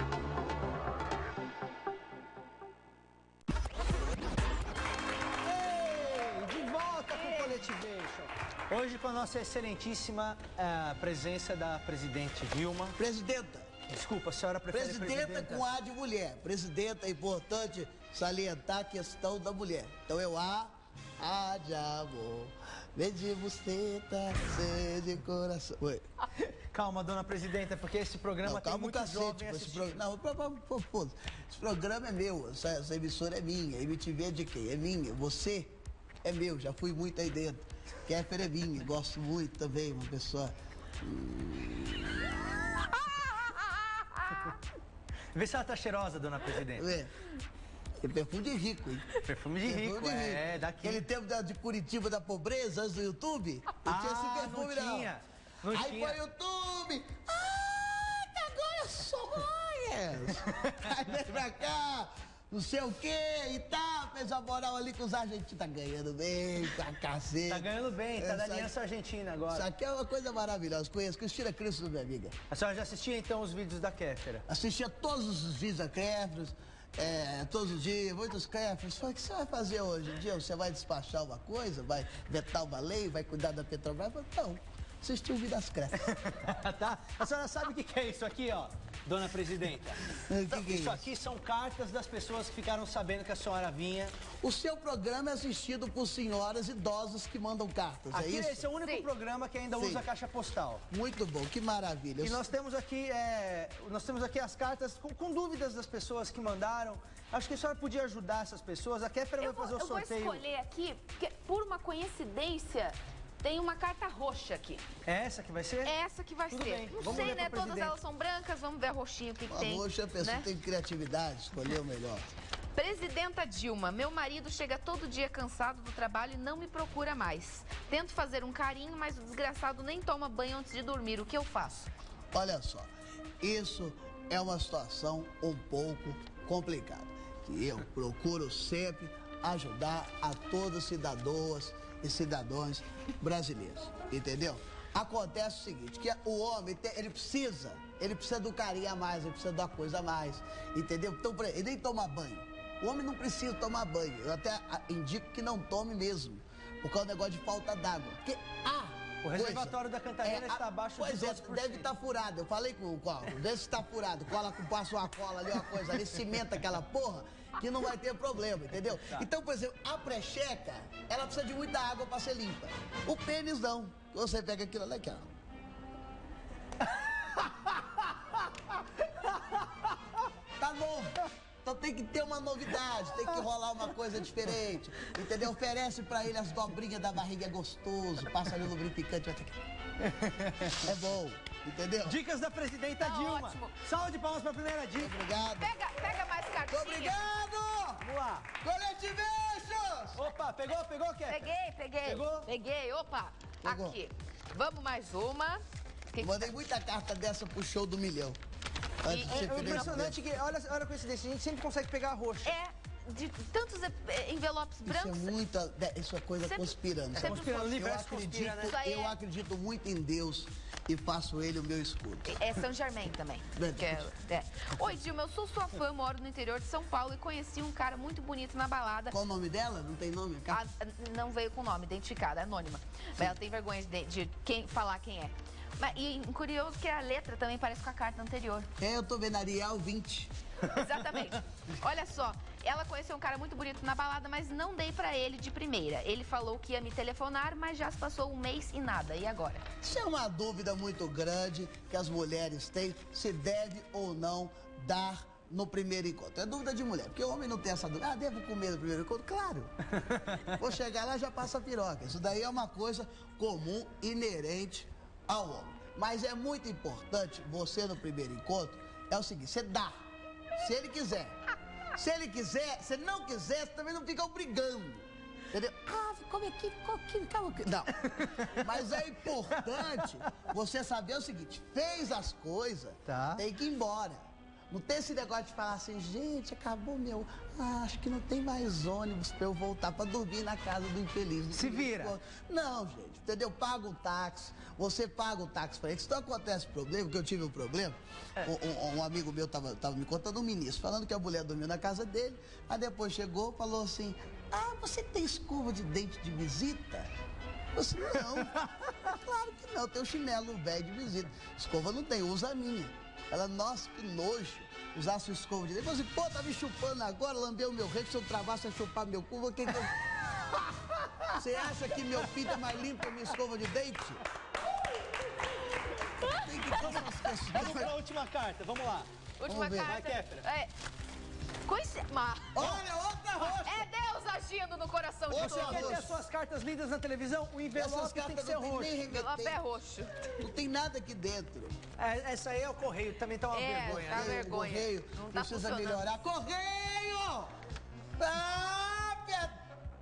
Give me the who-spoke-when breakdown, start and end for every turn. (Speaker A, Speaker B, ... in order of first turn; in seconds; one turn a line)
Speaker A: 5.4-13.0
Speaker B: 7.1-7.6
Speaker C: 13.0-13.8
Speaker A: 13.9-15.7
Speaker C: 14.7-26.1
Speaker A: 26.4-30.0
Speaker C: 28.4-43.3
Speaker A: 45.3-46.9
Speaker C: 46.7-47.1
Speaker C: 48.0-49.1
Speaker A: 49.1-51.1
Speaker C: 49.6-55.1
Speaker A: 53.8-56.2
Speaker C: 55.7-68.7
Speaker A: 67.5-69.7
Speaker C: 69.5-72.3
Speaker A: 72.5-74.4
Speaker C: 74.5-86.2
Speaker A: 86.0-94.1
Speaker C: 90.3-91.0
Speaker C: 94.4-98.7
Speaker A: 98.1-100.8
Speaker B: 98.8-99.1
Speaker C: 99.7-100.0
Speaker C: 100.9-102.5
Speaker A: 102.2-110.4
Speaker B: 109.4-114.8
Speaker A: 115.0-115.9
Speaker B: 115.8-120.5
Speaker A: 116.5-117.9
Speaker C: 117.0-117.4
Speaker C: 119.5-122.2
Speaker B: 122.7-131.9
Speaker C: 132.3-132.9
Speaker C: 133.4-175.3
Speaker A: 159.2-161.9
Speaker A: 177.4-177.7
Speaker A: 179.3-179.8
Speaker C: 180.6-189.6
Speaker A: 190.0-190.9
Speaker C: 190.8-192.2
Speaker A: 192.0-195.2
Speaker B: 193.0-193.8
Speaker C: 195.0-195.8
Speaker B: 195.6-197.2
Speaker C: 196.7-198.1
Speaker A: 198.0-198.5
Speaker C: 198.6-200.2
Speaker A: 200.2-201.5
Speaker B: 201.3-206.5
Speaker A: 202.0-202.5
Speaker C: 203.6-204.0
Speaker C: 206.2-208.4
Speaker C: 209.0-210.2
Speaker B: 209.1-210.1
Speaker A: 209.1-212.5
Speaker B: 212.4-215.3
Speaker C: 214.8-222.3
Speaker B: 216.4-217.7
Speaker A: 217.2-218.7
Speaker B: 218.6-219.2
Speaker B: 222.2-229.2
Speaker C: 223.6-224.1
Speaker C: 229.1-230.6
Speaker B: 230.5-238.7
Speaker C: 238.8-240.3
Speaker B: 240.6-249.6
Speaker C: 249.8-259.7
Speaker A: 260.0-260.4
Speaker C: 260.4-269.9
Speaker C: 270.6-271.4
Speaker C: 271.9-307.1
Speaker A: 278.0-278.9
Speaker A: 279.9-280.2
Speaker A: 283.1-283.4
Speaker A: 291.5-292.1
Speaker C: 307.7-320.0
Speaker A: 320.5-321.4
Speaker C: 321.3-324.2
Speaker B: 326.2-327.3
Speaker C: 326.2-327.9
Speaker A: 326.8-329.1
Speaker B: 329.4-330.7
Speaker C: 329.4-330.0
Speaker A: 329.8-330.4
Speaker B: 331.6-332.6
Speaker C: 332.5-333.9
Speaker A: 332.6-332.8
Speaker B: 333.6-336.0
Speaker C: 335.3-336.2
Speaker A: 335.4-339.0
Speaker C: 337.7-339.6
Speaker B: 339.1-340.4
Speaker C: 340.4-341.8
Speaker A: 342.0-344.5
Speaker B: 343.5-346.1
Speaker C: 343.8-347.5
Speaker C: 348.2-349.6